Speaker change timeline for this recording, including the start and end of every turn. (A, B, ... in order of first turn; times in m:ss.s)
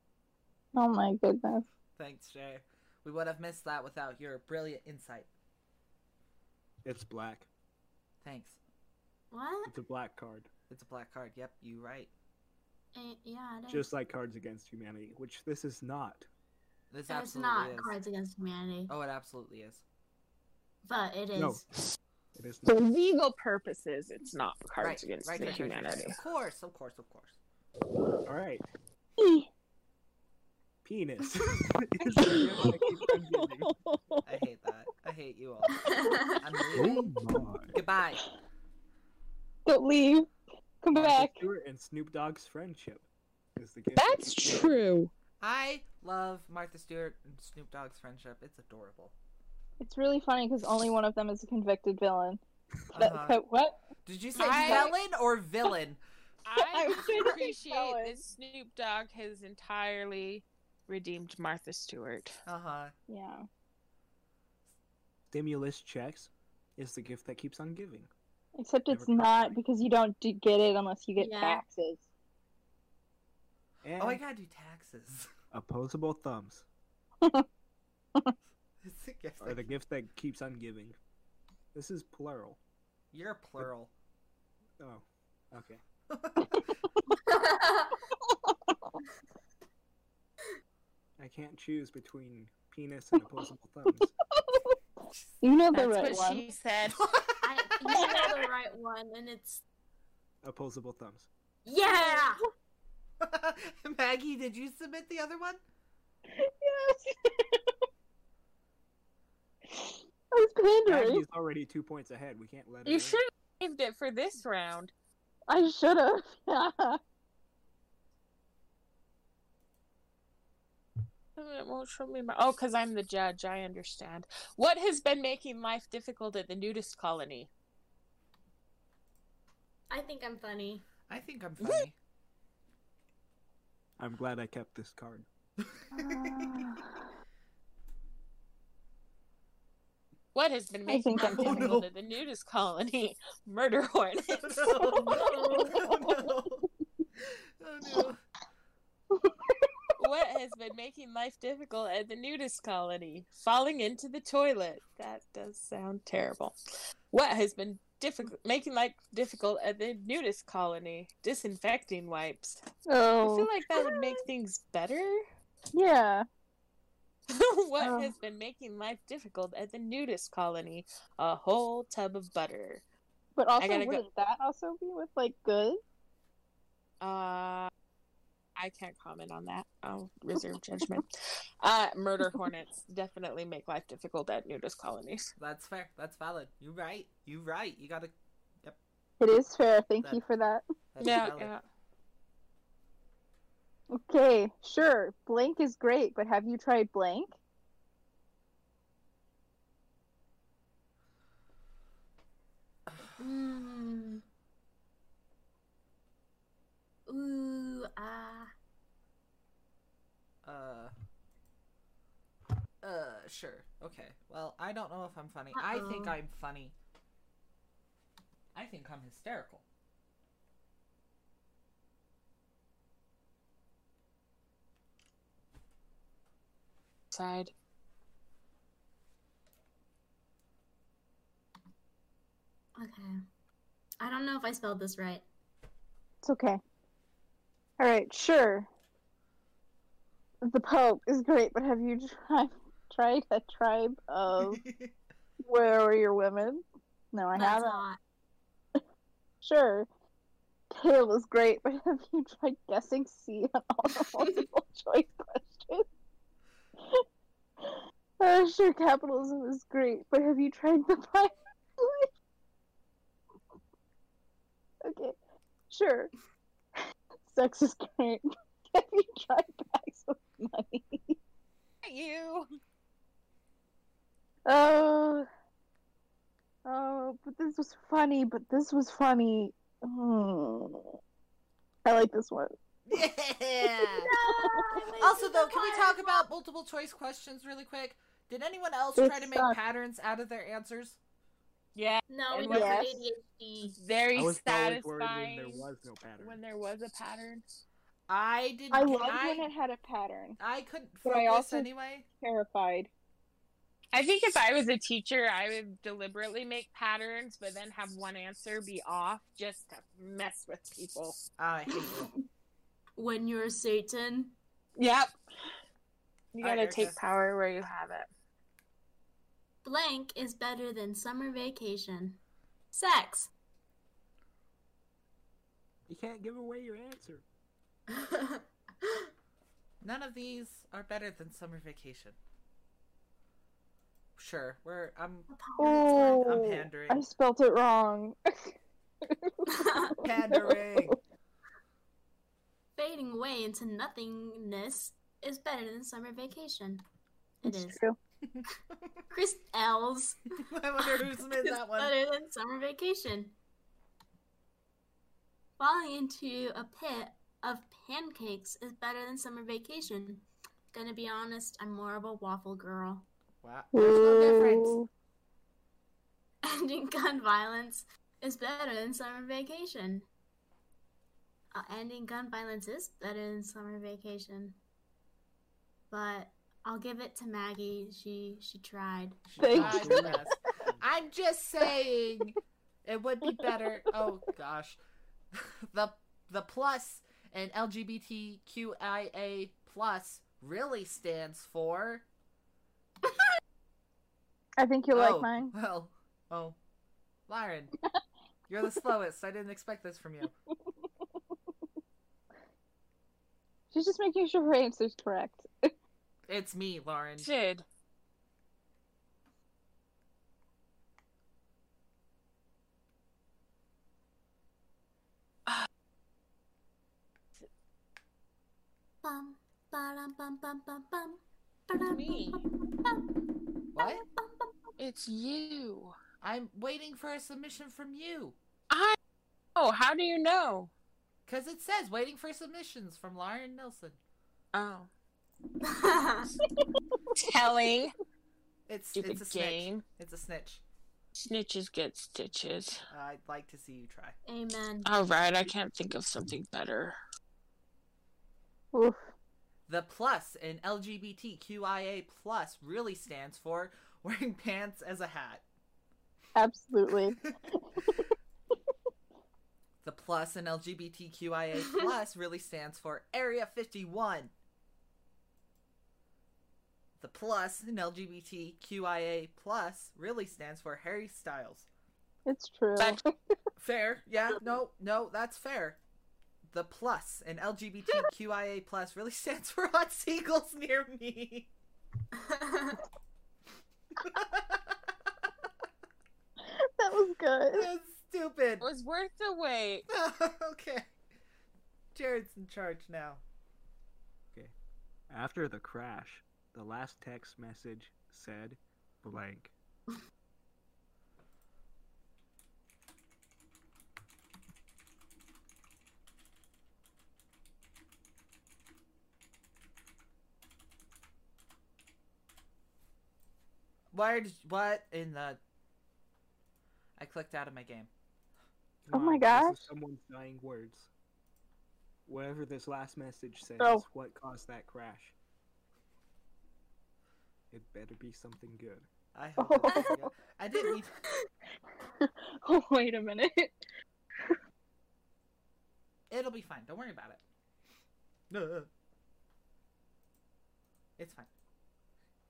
0:00.7-0:01.6 A
0:02.0-0:05.3 B
0:06.8-0:07.5 C
0:08.2-0:08.6 B
0:09.3-0:09.7 D
0:09.6-0:10.5 C
0:10.7-0:12.1 B
0:12.9-0:13.9 D
0:13.7-0:16.3 C
0:16.9-0:18.0 B
0:17.1-0:18.9 D
0:18.9-0:19.8 B
0:20.8-0:21.6 D
0:21.4-0:21.6 C
0:22.3-0:22.7 C
0:22.6-0:26.2 E
0:24.8-0:27.4 B
0:28.2-0:28.6 C
0:29.2-0:29.4 A
0:30.8-0:33.7 C
0:32.1-0:34.2 A
0:32.3-0:32.7 B
0:34.2-0:37.1 B
0:35.8-0:36.4 D
0:36.7-0:37.8 C
0:37.7-0:38.2 B
0:39.6-0:41.4 A
0:40.9-0:43.0 C
0:43.6-0:44.8 C
0:43.9-0:45.1 E
0:45.4-0:49.1 B
0:49.8-0:52.4 A
0:52.9-0:53.4 B
0:53.0-0:53.8 A
0:54.0-0:56.0 B
0:54.4-0:54.9 E
0:54.4-0:54.9 A
0:56.4-1:02.4 E
0:56.6-0:58.2 A
1:02.4-1:02.9 B
1:03.1-1:03.4 A
1:05.3-1:08.1 C
1:08.6-1:12.0 A
1:08.9-1:09.6 C
1:11.2-1:11.6 D
1:13.8-1:14.2 C
1:14.0-1:15.3 B
1:15.5-1:16.6 C
1:18.8-1:19.6 B
1:19.4-1:21.0 C
1:21.7-1:22.6 C
1:23.1-1:23.9 B
1:24.8-1:25.8 C
1:26.1-1:26.7 B
1:26.5-1:27.2 A
1:27.2-1:28.0 D
1:28.1-1:29.0 A
1:31.2-1:34.1 C
1:34.3-1:34.8 A
1:35.4-1:36.4 A
1:35.7-1:37.0 E
1:36.9-1:38.2 B
1:37.4-1:39.6 D
1:37.9-1:38.4 A
1:40.4-1:41.3 C
1:41.6-1:42.4 D
1:41.9-1:42.4 A
1:43.2-1:45.6 B
1:46.3-1:47.8 A
1:49.7-1:51.2 A
1:50.8-1:53.2 C
1:52.8-1:54.9 E
1:55.5-1:57.0 A
2:01.4-2:07.5 E
2:09.9-2:10.8 D
2:11.1-2:12.0 B
2:14.0-2:15.2 C
2:15.9-2:17.1 A
2:15.9-2:16.7 B
2:20.3-2:24.7 E
2:20.9-2:21.8 A
2:21.2-2:21.8 B
2:24.3-2:26.7 B
2:24.9-2:26.3 A
2:25.1-2:25.8 D
2:27.6-2:28.2 B
2:29.1-2:29.9 A
2:30.0-2:36.5 E
2:37.1-2:42.6 E
2:42.9-2:43.9 A
2:43.2-2:45.2 E
2:45.7-2:46.2 A
2:47.3-2:52.8 E
2:47.8-2:48.1 A
2:53.4-2:55.8 A
2:53.6-2:54.0 E
2:57.0-2:57.7 E
2:58.6-3:05.3 E
3:05.4-3:08.8 B
3:09.2-3:10.6 A
3:10.9-3:11.5 B
3:11.0-3:11.6 E
3:13.9-3:17.3 A
3:23.2-3:24.2 D
3:27.1-3:28.5 D
3:30.4-3:30.9 B
3:32.8-3:36.7 B
3:35.5-3:36.2 D
3:38.5-3:39.6 B
3:47.1-3:47.5 E
3:52.8-3:53.2 D
3:54.0-3:55.2 D
3:56.2-3:56.6 A
3:57.8-3:58.7 A
4:00.4-4:04.6 A
4:04.4-4:04.9 B
4:05.4-4:07.8 A
4:07.3-4:08.0 D
4:09.4-4:09.9 A
4:10.7-4:15.8 A
4:17.6-4:22.1 A
4:24.8-4:25.2 A
4:25.7-4:26.1 A
4:27.2-4:31.2 A
4:31.8-4:32.5 E
4:34.4-4:35.3 A
4:36.6-4:40.9 A
4:41.8-4:42.5 A
4:42.9-4:44.1 B
4:43.7-4:44.9 A
4:44.1-4:46.2 D
4:45.0-4:51.0 B
4:49.0-4:49.6 A
4:51.7-4:52.8 E
4:52.1-4:53.8 D
4:52.4-4:53.0 A
4:53.8-4:55.6 E
4:54.1-4:56.4 C
4:56.2-4:57.4 E
4:58.1-4:59.5 B
4:58.7-5:00.4 A
5:00.4-5:02.0 B
5:01.0-5:02.9 A
5:03.9-5:11.2 E
5:11.4-5:12.1 B
5:11.8-5:12.1 D
5:13.0-5:14.3 D
5:14.8-5:15.1 E
5:16.3-5:18.1 E
5:16.4-5:17.0 B
5:19.6-5:22.2 D
5:22.7-5:23.3 D
5:25.9-5:27.2 C
5:27.9-5:29.1 D
5:29.8-5:32.2 B
5:34.2-5:35.3 B
5:35.3-5:36.0 D
5:35.6-5:41.0 A
5:35.8-5:37.0 B
5:39.5-5:40.0 D
5:40.0-5:41.0 B
5:42.8-5:46.8 D
5:47.4-5:47.8 D
5:47.4-5:48.0 A
5:49.1-5:50.2 D
5:50.4-5:51.9 B
5:50.8-5:53.3 D
5:55.6-6:03.1 D
6:03.4-6:04.8 B
6:03.7-6:04.9 A
6:06.4-6:10.0 D
6:11.5-6:14.6 D
6:15.9-6:19.3 D
6:19.3-6:24.8 B
6:19.4-6:20.3 A
6:19.5-6:20.2 C
6:23.2-6:23.6 A
6:25.3-6:32.0 B
6:34.6-6:35.5 A
6:34.9-6:36.6 B
6:37.3-6:37.7 B
6:38.5-6:40.3 B
6:43.7-6:45.7 A
6:46.3-6:47.3 B
6:47.2-6:47.6 E
6:59.0-7:03.1 D
7:01.7-7:02.4 E
7:03.7-7:04.7 D
7:03.8-7:04.0 B
7:04.8-7:05.9 E
7:06.2-7:08.4 B
7:08.7-7:09.0 E
7:09.6-7:10.7 E
7:11.3-7:14.0 B
7:14.5-7:14.9 E
7:15.6-7:16.3 D
7:17.1-7:17.9 E
7:18.7-7:20.6 B
7:18.9-7:19.8 E
7:21.2-7:22.8 E
7:22.9-7:24.2 B
7:24.3-7:24.9 D
7:24.8-7:27.0 E
7:28.7-7:29.1 A
7:29.7-7:35.4 B
7:36.3-7:38.1 A
7:39.8-7:44.3 B
7:47.0-7:51.7 B
7:52.2-7:53.1 A
7:53.6-7:55.8 B
7:56.5-8:01.5 B
8:02.1-8:02.8 D
8:04.0-8:04.7 B
8:06.5-8:07.7 A
8:07.5-8:08.7 B
8:08.6-8:09.9 E
8:09.9-8:10.9 B
8:11.9-8:13.2 B
8:15.1-8:19.5 C
8:33.9-8:35.4 B
8:37.0-8:37.9 B
8:38.8-8:40.9 C
8:38.9-8:39.6 A
8:42.0-8:45.1 C
8:43.6-8:43.8 A
8:47.5-8:48.9 C
8:49.1-8:50.9 B
8:49.4-8:50.1 A
8:52.0-8:53.6 A
8:56.1-8:57.2 B
8:58.3-8:58.7 B
9:01.0-9:01.3 B